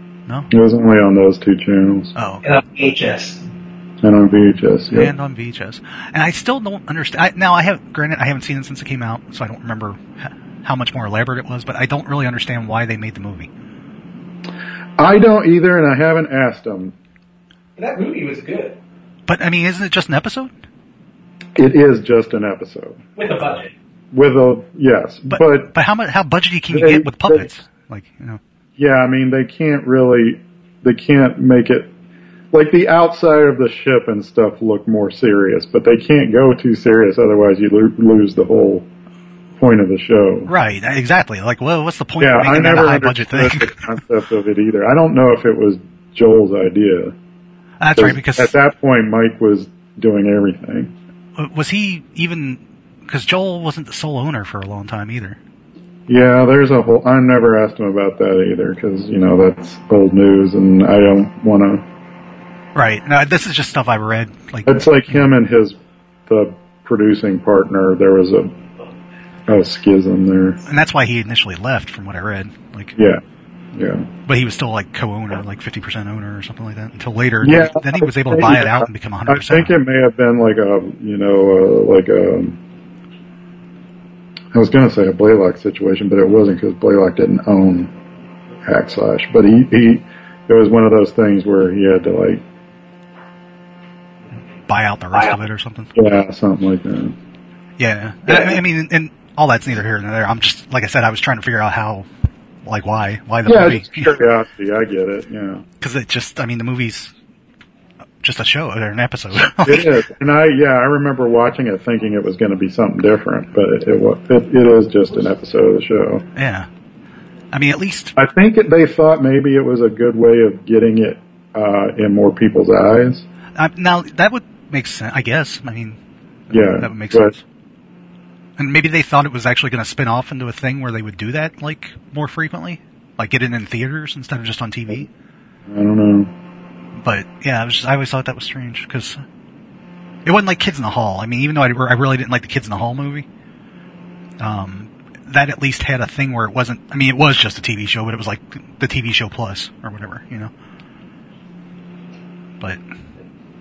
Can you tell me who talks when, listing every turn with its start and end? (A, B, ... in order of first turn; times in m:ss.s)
0:00.5-0:02.1 A
0:02.1-0:02.4 B
0:02.4-0:03.4 C
0:04.0-0:05.1 A
0:04.9-0:13.5 B
0:15.0-0:17.0 A
0:17.8-0:18.8 C
0:19.3-0:20.5 B
0:21.6-0:23.0 A
0:23.2-0:23.7 C
0:24.1-0:25.7 A
0:25.3-0:28.4 B
0:26.7-0:27.5 A
0:28.8-0:31.9 A
0:32.5-0:38.9 A
0:39.6-0:40.5 A
0:40.5-0:43.7 B
0:42.2-0:47.1 A
0:47.8-0:48.5 B
0:48.0-0:50.9 A
0:51.4-0:55.4 B
0:56.1-1:01.8 A
1:02.7-1:04.8 B
1:04.7-1:05.8 A
1:06.3-1:08.5 A
1:09.5-1:10.6 A
1:10.6-1:13.0 B
1:13.0-1:13.2 A
1:13.7-1:14.1 A
1:14.3-1:19.7 B
1:17.4-1:22.6 A
1:24.5-1:27.9 A
1:28.6-1:32.4 A
1:34.7-1:35.9 B
1:36.0-1:37.2 A
1:37.8-1:42.1 B
1:38.3-1:38.6 C
1:42.6-1:44.2 B
1:43.4-1:45.6 A
1:45.8-1:47.1 B
1:48.2-1:49.9 B
1:49.6-1:56.3 A
1:56.3-1:56.7 B
1:57.5-1:58.1 B
1:58.2-2:03.2 A
2:03.6-2:06.0 B
2:06.5-2:07.4 B
2:06.5-2:07.3 A
2:08.6-2:15.1 B
2:15.7-2:16.3 A
2:17.0-2:19.2 B
2:20.2-2:23.3 B
2:24.4-2:30.5 B